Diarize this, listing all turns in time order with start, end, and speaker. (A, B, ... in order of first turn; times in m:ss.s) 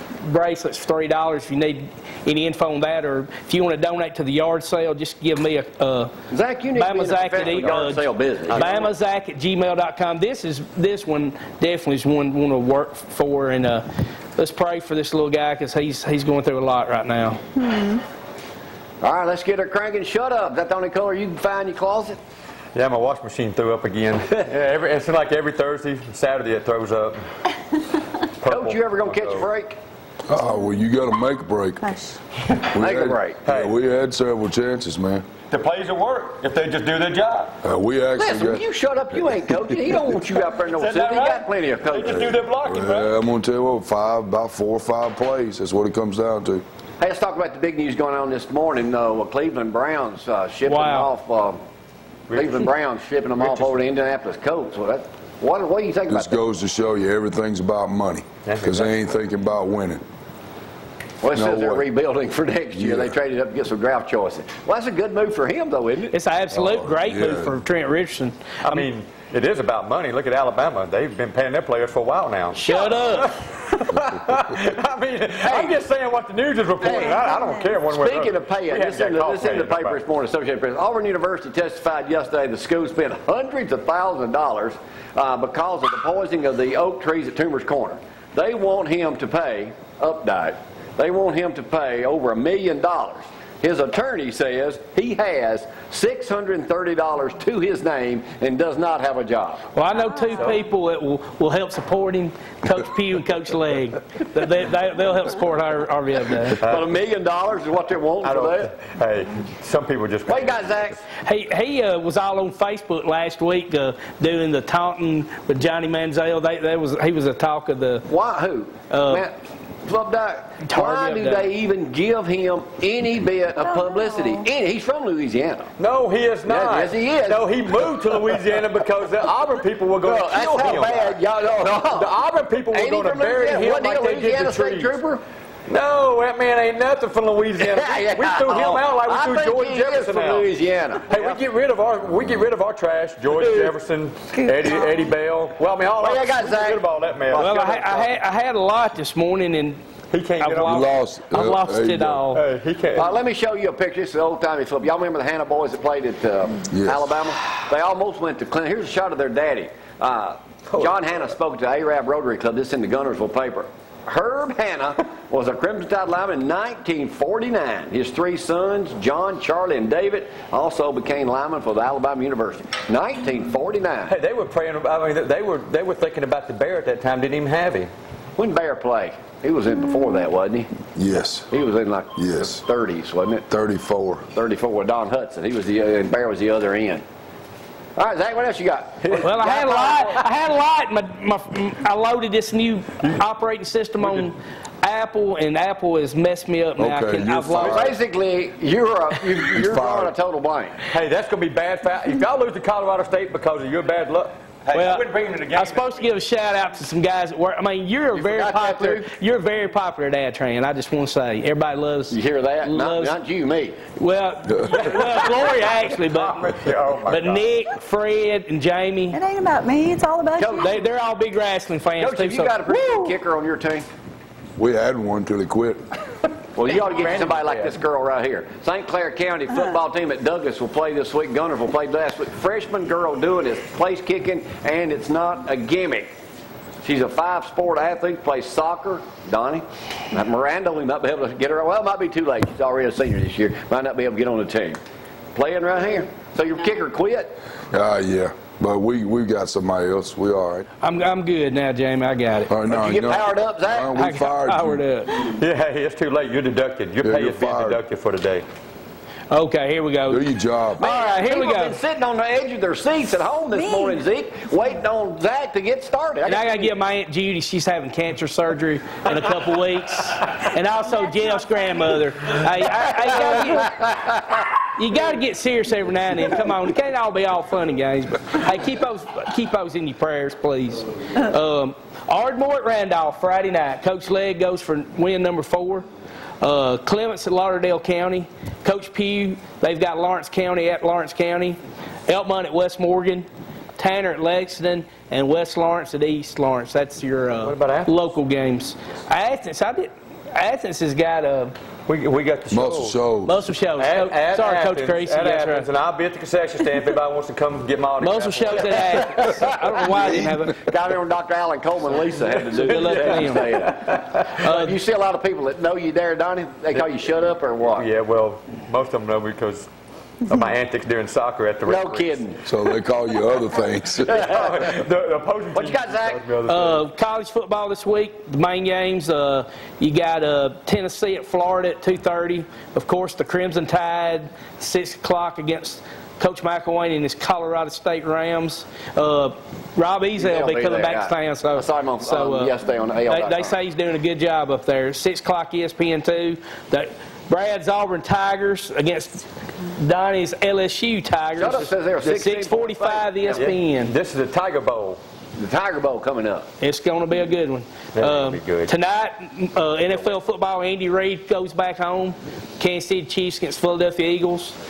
0:00.2-0:06.1 A
0:06.3-0:08.9 B
0:06.7-0:13.8 A
0:14.4-0:17.4 A
0:17.6-0:18.0 C
0:19.0-0:22.2 B
0:22.7-0:27.2 D
0:28.4-0:29.5 D
0:28.4-0:29.8 B
0:30.2-0:31.8 E
0:32.6-0:35.2 E
0:32.8-0:33.4 B
0:33.4-0:33.7 D
0:35.5-0:37.6 D
0:37.6-0:38.6 E
0:38.2-0:42.3 B
0:40.6-0:43.1 D
0:42.0-0:46.6 E
0:47.0-0:51.6 B
0:50.6-0:51.1 A
0:52.3-0:52.7 D
0:52.3-0:56.4 B
0:53.4-0:53.8 D
0:56.1-1:00.0 E
0:58.4-0:58.9 D
1:01.2-1:06.1 B
1:01.3-1:01.9 E
1:02.7-1:03.2 E
1:06.1-1:08.9 A
1:06.5-1:07.6 E
1:08.6-1:20.0 D
1:12.5-1:13.3 A
1:15.4-1:15.8 B
1:16.8-1:17.2 B
1:17.9-1:39.6 B
1:39.7-1:46.6 A
1:40.1-1:40.6 C
1:46.6-1:48.7 B
1:46.6-1:46.9 D
1:48.2-1:51.0 D
1:50.2-1:51.0 B
1:51.2-1:58.1 A
1:58.1-1:59.3 B
1:58.9-1:59.2 A
1:59.8-2:05.7 B
2:00.6-2:01.5 A
2:03.6-2:04.4 C
2:05.8-2:11.2 D
2:06.4-2:07.5 B
2:10.0-2:12.1 B
2:11.9-2:15.0 D
2:12.7-2:15.2 B
2:15.7-2:20.5 D
2:17.6-2:21.4 B
2:21.1-2:27.5 D
2:26.0-2:28.1 B
2:27.3-2:29.8 A
2:30.1-2:30.8 D
2:30.4-2:32.4 A
2:30.6-2:32.3 E
2:32.3-2:33.1 D
2:32.9-2:54.2 B
2:36.7-2:37.1 E
2:40.7-2:41.0 D
2:54.1-2:57.9 D
2:58.4-3:00.7 B
3:00.9-3:01.5 E
3:01.5-3:03.4 B
3:02.1-3:02.6 E
3:03.5-3:04.3 E
3:04.3-3:07.0 B
3:08.0-3:10.2 B
3:09.2-3:17.8 A
3:14.0-3:14.3 D
3:16.8-3:17.9 E
3:17.6-3:20.8 B
3:19.5-3:20.1 E
3:20.8-3:26.0 D
3:24.7-3:33.2 A
3:28.1-3:29.0 B
3:32.1-3:33.8 B
3:33.9-3:36.4 A
3:34.7-3:37.4 D
3:37.1-3:39.2 A
3:39.1-3:40.7 C
3:40.4-3:40.8 B
3:40.6-3:42.6 A
3:42.0-3:43.8 B
3:42.8-3:43.1 C
3:44.6-3:45.8 E
3:46.6-3:56.1 B
3:46.7-3:47.8 D
3:56.8-4:04.8 B
4:05.3-4:07.3 B
4:07.7-4:10.6 E
4:10.8-4:12.5 A
4:12.5-4:14.8 E
4:12.7-4:13.9 B
4:14.0-4:15.3 A
4:15.4-4:18.4 D
4:17.0-4:17.8 E
4:19.3-4:20.2 A
4:20.1-4:20.8 E
4:20.8-4:21.8 A
4:20.8-4:26.7 B
4:23.5-4:24.0 C
4:26.2-4:33.8 A
4:33.5-4:34.1 B
4:34.7-4:45.8 A
4:46.4-4:53.2 A
4:53.8-5:01.5 A
4:57.4-4:57.9 D
5:01.9-5:03.0 D
5:02.5-5:03.4 E
5:03.2-5:05.7 A
5:03.8-5:08.9 D
5:08.0-5:10.6 A
5:08.7-5:17.9 B
5:09.9-5:10.4 E
5:12.2-5:14.4 D
5:12.5-5:13.5 A
5:14.4-5:14.8 A
5:17.7-5:19.7 D
5:20.2-5:22.2 D
5:21.6-5:22.4 B
5:22.4-5:24.2 E
5:24.0-5:26.8 D
5:24.1-5:24.8 B
5:25.5-5:26.3 B
5:26.5-5:42.5 A
5:40.2-5:43.6 B
5:43.0-5:53.9 A
5:51.4-5:53.5 B
5:53.3-5:55.0 D
5:55.4-5:56.5 B
5:56.6-6:04.5 A
5:58.0-5:58.7 D